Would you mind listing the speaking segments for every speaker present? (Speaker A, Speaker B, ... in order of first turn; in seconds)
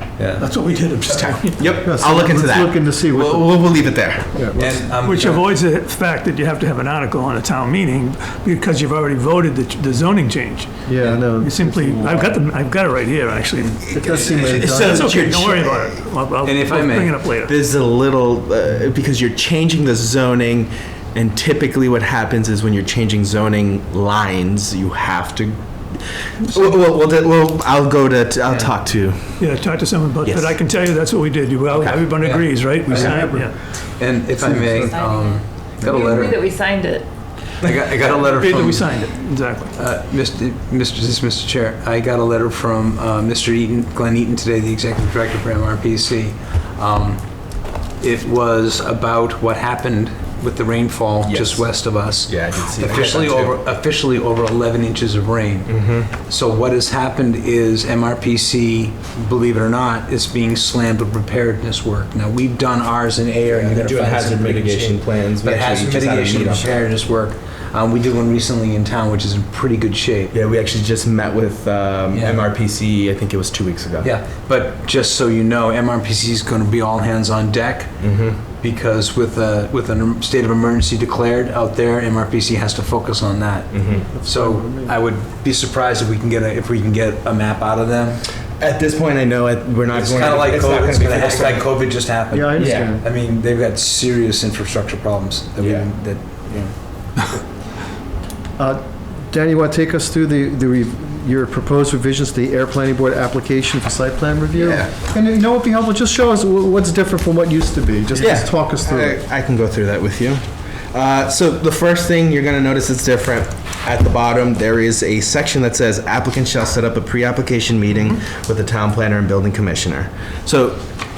Speaker A: 0.2-0.5, 4.6-5.5, 14.2-14.6, 16.4-17.2, 32.2-36.4, 37.6-39.0, 39.8-47.2, 48.0-70.3, 72.1-72.5, 74.0-78.0, 78.5-88.2, 89.9-96.7
Speaker B: 0.4-1.7, 5.0-14.0, 14.6-17.5, 29.4-33.6, 37.6-39.8
Speaker C: 1.1-4.4, 13.9-15.9, 17.4-25.6, 26.4-29.4, 30.2-30.6, 31.7-32.2, 51.2-51.7, 52.3-53.6, 55.7-56.1, 63.5-66.8, 70.3-74.1, 78.0-78.4, 83.7-84.1, 88.6-91.9, 92.6-92.9, 95.6-95.9, 104.6-104.9, 108.2-110.4, 110.9-120.8
Speaker D: 1.7-3.8, 4.3-4.9, 10.9-12.4, 13.9-15.4, 32.9-33.5, 34.4-34.9, 84.1-85.0, 92.3-93.0, 98.6-109.2
Speaker E: 34.8-37.1